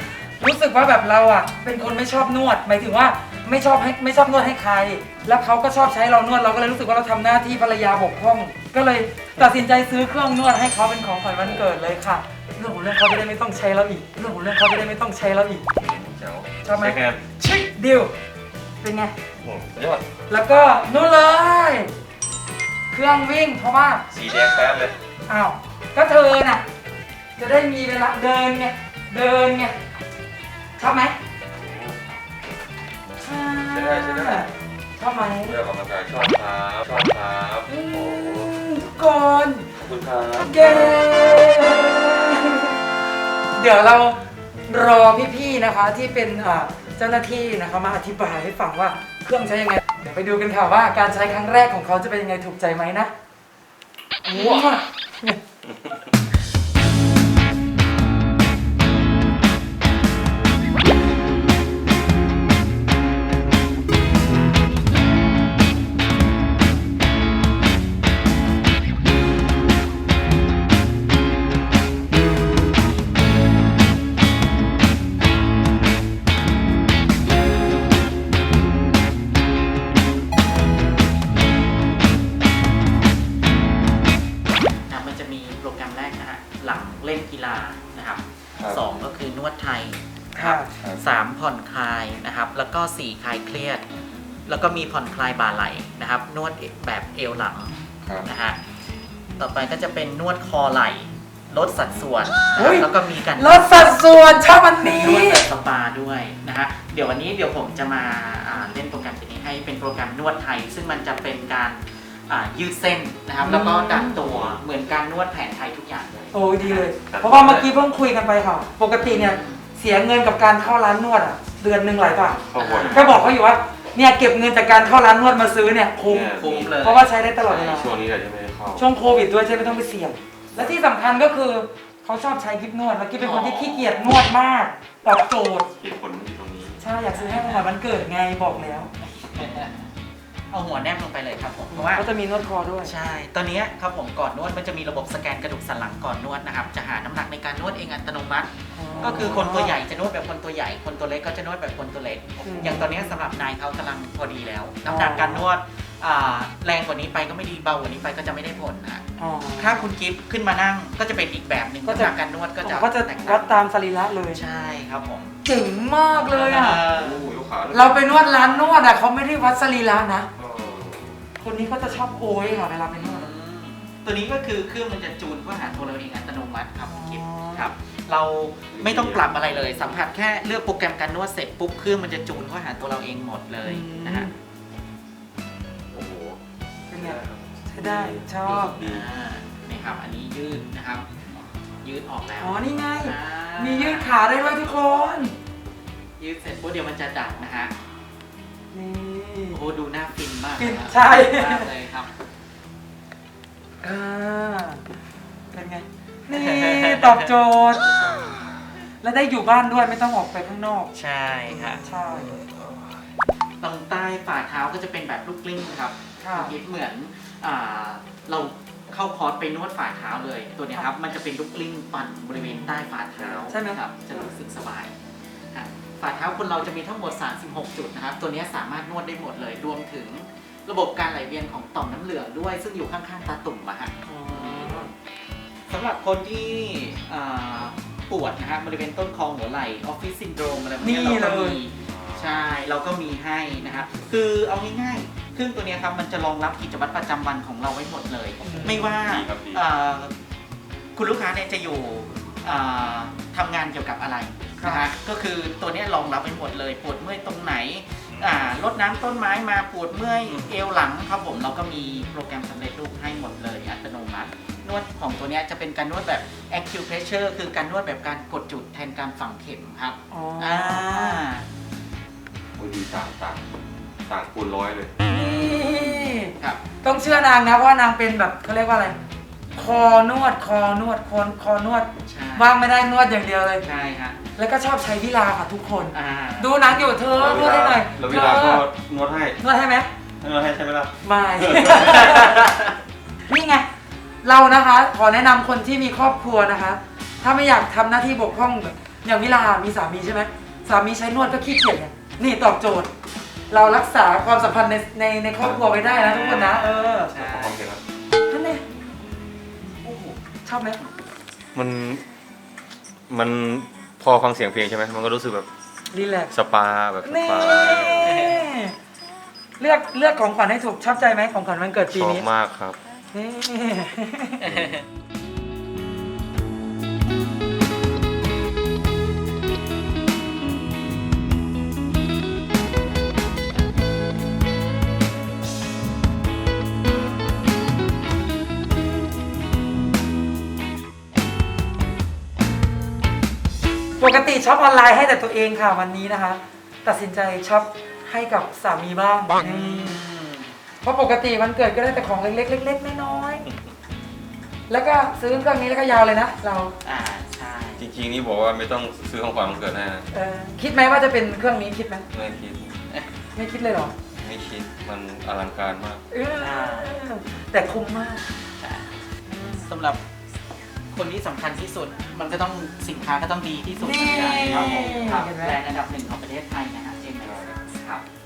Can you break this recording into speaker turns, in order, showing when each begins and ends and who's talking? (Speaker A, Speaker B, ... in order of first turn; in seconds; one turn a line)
Speaker A: 0.4-15.6
Speaker B: 15.7-17.2
Speaker A: 16.6-18.1
Speaker A: 18.8-19.1
Speaker B: 19.4-20.0
Speaker A: 20.3-21.9
Speaker A: 22.9-24.0
Speaker B: 24.1-24.9
Speaker A: 25.3-26.6
Speaker A: 27.4-29.7
Speaker A: 30.8-31.1
Speaker B: 31.6-32.0
Speaker A: 33.2-35.5
Speaker B: 33.7-34.5
Speaker B: 35.4-38.5
Speaker A: 37.7-39.7
Speaker B: 39.8-41.1
Speaker A: 40.4-42.8
Speaker A: 43.5-53.1
Speaker A: 54.2-55.4
Speaker B: 54.3-54.7
Speaker C: 84.9-93.8
Speaker A: 90.3-90.7
Speaker B: 90.6-91.0
Speaker C: 94.5-97.7
Speaker C: 98.2-98.6
Speaker C: 99.4-104.0
Speaker A: 102.5-105.5
Speaker C: 104.8-116.9
Speaker A: 113.4-114.2
Speaker B: 114.2-114.6
Speaker A: 116.3-127.9
Speaker B: 117.1-117.7
Speaker C: 119.0-119.6
Speaker B: 122.5-123.3
Speaker C: 122.6-123.1
Speaker B: 126.0-126.8
Speaker C: 126.1-127.9
Speaker B: 127.5-128.9
Speaker A: 128.8-135.7
Speaker C: 133.2-133.8
Speaker B: 135.8-136.8
Speaker A: 136.8-138.9
Speaker C: 137.1-137.7
Speaker C: 139.0-139.8
Speaker C: 140.5-142.1
Speaker A: 141.7-142.9
Speaker C: 142.8-159.0
Speaker A: 148.7-149.7
Speaker B: 149.0-149.4
Speaker B: 152.4-152.7
Speaker A: 152.4-152.9
Speaker A: 154.8-155.5
Speaker A: 159.2-159.8
Speaker C: 159.6-163.6
Speaker A: 161.8-164.4
Speaker C: 164.3-165.4
Speaker A: 165.4-166.8
Speaker C: 166.1-167.2
Speaker B: 166.9-168.3
Speaker A: 167.7-170.3
Speaker C: 168.1-168.8
Speaker B: 170.3-171.2
Speaker A: 171.4-173.3
Speaker C: 172.9-184.3
Speaker A: 176.8-177.7
Speaker B: 178.7-179.9
Speaker A: 183.6-184.3
Speaker B: 185.9-186.4
Speaker A: 186.9-188.8
Speaker B: 186.9-189.1
Speaker C: 188.4-194.1
Speaker A: 192.4-195.3
Speaker C: 196.2-197.7
Speaker A: 198.7-199.6
Speaker C: 199.5-202.1
Speaker A: 200.6-201.7
Speaker A: 203.8-204.8
Speaker A: 205.5-207.9
Speaker C: 206.3-207.3
Speaker A: 209.0-210.9
Speaker C: 210.9-212.0
Speaker A: 211.5-212.4
Speaker C: 213.6-224.9
Speaker A: 216.2-216.5
Speaker A: 222.3-222.8
Speaker B: 223.2-223.5
Speaker A: 223.5-223.8
Speaker C: 225.5-234.9
Speaker A: 234.1-234.9
Speaker C: 235.7-250.1
Speaker A: 240.8-241.6
Speaker B: 241.9-242.5
Speaker A: 248.4-248.9
Speaker B: 248.6-249.6
Speaker C: 250.9-271.4
Speaker A: 254.6-254.8
Speaker B: 258.1-258.4
Speaker B: 260.3-260.5
Speaker A: 270.1-271.2
Speaker B: 272.6-273.4
Speaker B: 274.1-274.9
Speaker A: 275.1-278.9
Speaker C: 275.5-276.6
Speaker A: 279.5-283.6
Speaker C: 282.1-282.5
Speaker C: 283.6-284.2
Speaker A: 284.4-288.6
Speaker C: 285.9-286.5
Speaker B: 287.1-289.4
Speaker A: 289.4-289.9
Speaker B: 290.2-292.4
Speaker A: 291.0-292.4
Speaker A: 293.3-293.6
Speaker A: 294.2-302.9
Speaker A: 303.5-307.1
Speaker B: 305.4-305.7
Speaker C: 305.7-307.7
Speaker B: 307.1-307.8
Speaker A: 308.3-308.6
Speaker A: 309.8-310.8
Speaker B: 311.5-312.0
Speaker B: 313.1-315.5
Speaker A: 315.9-316.3
Speaker B: 316.3-318.2
Speaker A: 317.0-318.7
Speaker C: 318.0-318.4
Speaker A: 319.6-322.2
Speaker B: 321.9-322.8
Speaker A: 323.1-324.4
Speaker C: 324.4-324.8
Speaker B: 324.4-324.7
Speaker A: 344.0-350.0
Speaker C: 349.4-350.5
Speaker A: 350.8-353.4
Speaker A: 354.7-356.7
Speaker C: 356.8-357.9
Speaker B: 357.8-360.1
Speaker A: 360.1-362.1
Speaker B: 362.1-362.7
Speaker A: 363.3-363.9
Speaker B: 364.1-366.0
Speaker A: 366.1-368.2
Speaker C: 366.4-366.9
Speaker C: 368.6-370.0
Speaker C: 370.9-378.0
Speaker A: 373.8-375.6
Speaker B: 374.2-375.2